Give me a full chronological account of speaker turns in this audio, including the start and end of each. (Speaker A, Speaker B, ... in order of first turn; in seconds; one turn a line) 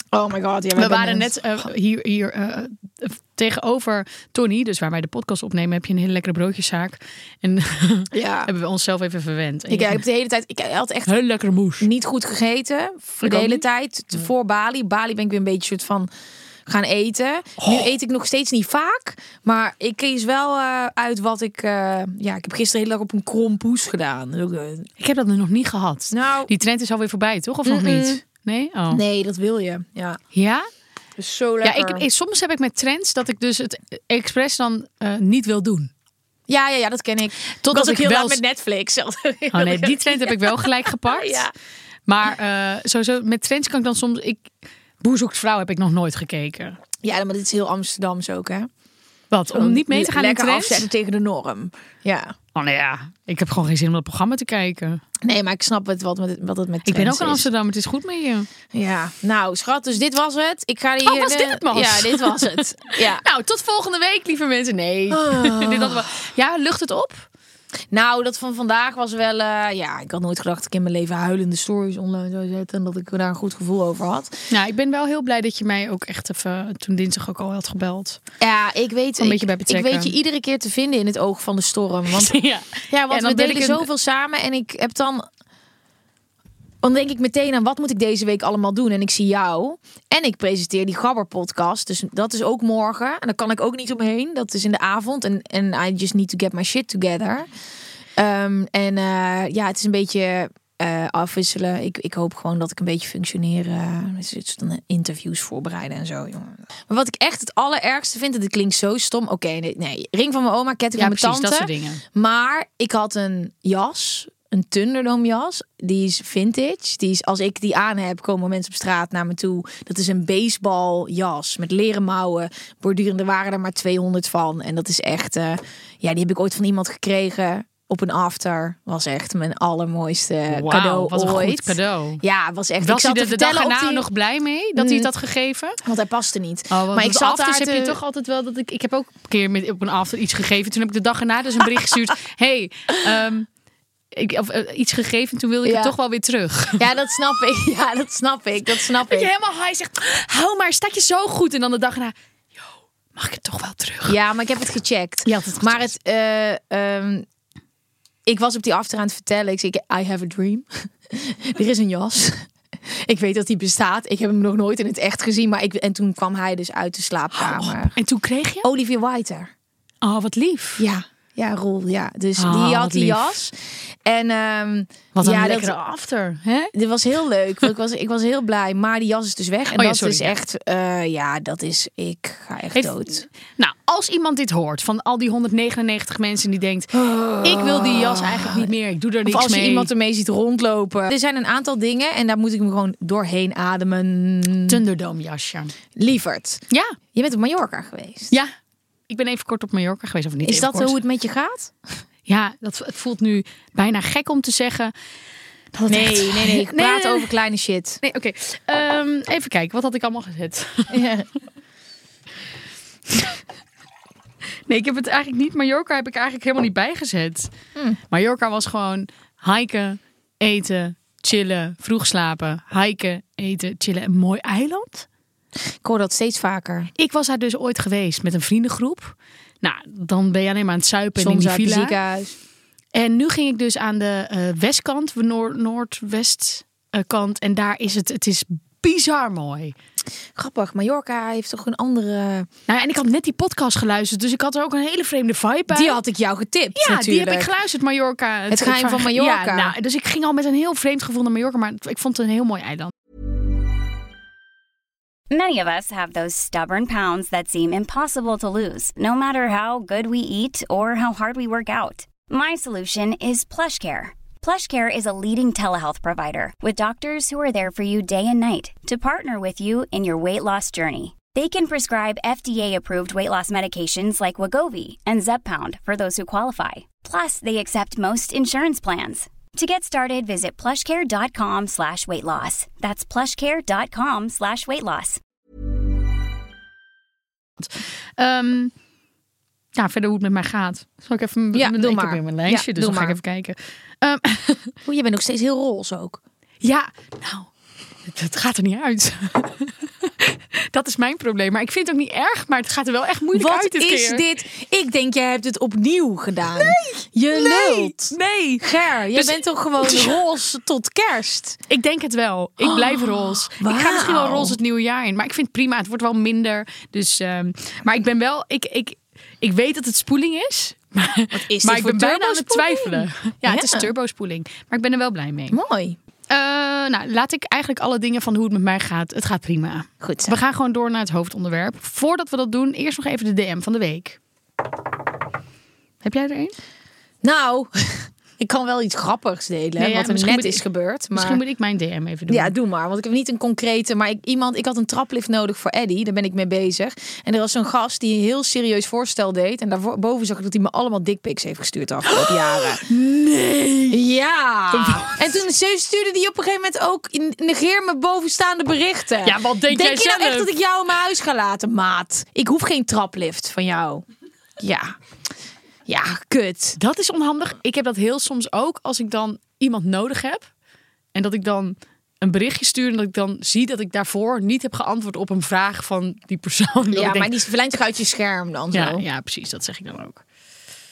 Speaker A: 0.1-1.3
Speaker B: 0.8-10.0
Speaker A: 8.1-8.5
Speaker A: 9.7-11.1
Speaker B: 11.1-11.9
Speaker A: 11.8-16.1
Speaker B: 13.2-13.6
Speaker A: 16.7-24.9
Speaker B: 17.6-17.9
Speaker B: 25.0-29.0
Speaker A: 26.1-26.5
Speaker A: 27.6-28.2
Speaker A: 28.9-30.2
Speaker B: 30.3-30.7
Speaker A: 31.2-32.0
Speaker B: 31.6-35.9
Speaker A: 36.5-41.5
Speaker B: 37.6-38.4
Speaker B: 39.5-41.5
Speaker B: 42.1-46.8
Speaker A: 47.0-48.7
Speaker B: 49.3-50.9
Speaker A: 49.5-52.4
Speaker B: 52.5-55.0
Speaker A: 55.2-57.5
Speaker B: 56.9-58.5
Speaker A: 58.7-63.2
Speaker B: 61.0-67.3
Speaker A: 65.1-66.0
Speaker A: 67.9-74.4
Speaker B: 74.5-78.2
Speaker A: 78.4-85.2
Speaker B: 79.2-80.2
Speaker B: 82.2-83.9
Speaker A: 86.8-97.5
Speaker A: 98.2-134.1
Speaker B: 111.0-112.0
Speaker B: 130.5-132.2
Speaker B: 132.8-135.8
Speaker A: 134.8-135.1
Speaker A: 135.8-138.0
Speaker B: 136.7-143.5
Speaker B: 144.1-146.8
Speaker A: 145.6-145.9
Speaker A: 146.8-149.3
Speaker B: 149.1-154.2
Speaker A: 154.1-157.3
Speaker B: 155.2-155.9
Speaker A: 158.3-168.0
Speaker B: 167.3-168.7
Speaker A: 168.6-169.5
Speaker B: 170.0-170.8
Speaker A: 170.8-175.8
Speaker B: 172.4-173.3
Speaker B: 175.2-176.7
Speaker A: 176.7-183.3
Speaker B: 179.8-180.3
Speaker B: 182.7-186.9
Speaker A: 186.9-188.7
Speaker B: 187.4-189.9
Speaker A: 189.2-194.8
Speaker B: 194.7-195.7
Speaker A: 196.0-198.3
Speaker B: 196.7-197.0
Speaker B: 199.1-201.0
Speaker A: 200.4-202.0
Speaker B: 202.3-204.9
Speaker B: 205.7-207.3
Speaker A: 205.9-208.0
Speaker B: 208.0-211.0
Speaker A: 210.9-211.3
Speaker B: 214.7-217.5
Speaker B: 218.1-225.1
Speaker A: 225.8-226.9
Speaker B: 227.0-232.0
Speaker A: 231.2-232.4
Speaker B: 232.9-239.7
Speaker A: 240.3-242.5
Speaker B: 242.7-246.0
Speaker A: 245.7-247.5
Speaker B: 246.8-252.9
Speaker A: 248.5-249.7
Speaker C: 255.3-285.2
Speaker B: 287.6-288.7
Speaker B: 289.8-294.7
Speaker A: 291.5-293.2
Speaker A: 294.9-296.2
Speaker B: 296.6-297.5
Speaker B: 298.1-304.2
Speaker A: 303.3-311.6
Speaker B: 306.6-308.6
Speaker B: 309.1-310.2
Speaker B: 311.7-325.6
Speaker A: 312.6-314.6
Speaker A: 321.3-323.9
Speaker A: 325.5-326.0
Speaker B: 326.3-334.2
Speaker A: 330.0-330.4
Speaker B: 336.0-336.6
Speaker A: 337.2-341.4
Speaker B: 339.8-342.5
Speaker A: 342.3-352.8
Speaker B: 352.1-354.0
Speaker A: 353.9-364.1
Speaker B: 354.7-355.4
Speaker B: 359.2-360.5
Speaker A: 364.6-365.0
Speaker A: 365.9-366.8
Speaker B: 366.8-370.5
Speaker B: 371.1-377.4
Speaker A: 376.9-379.1
Speaker B: 378.7-380.2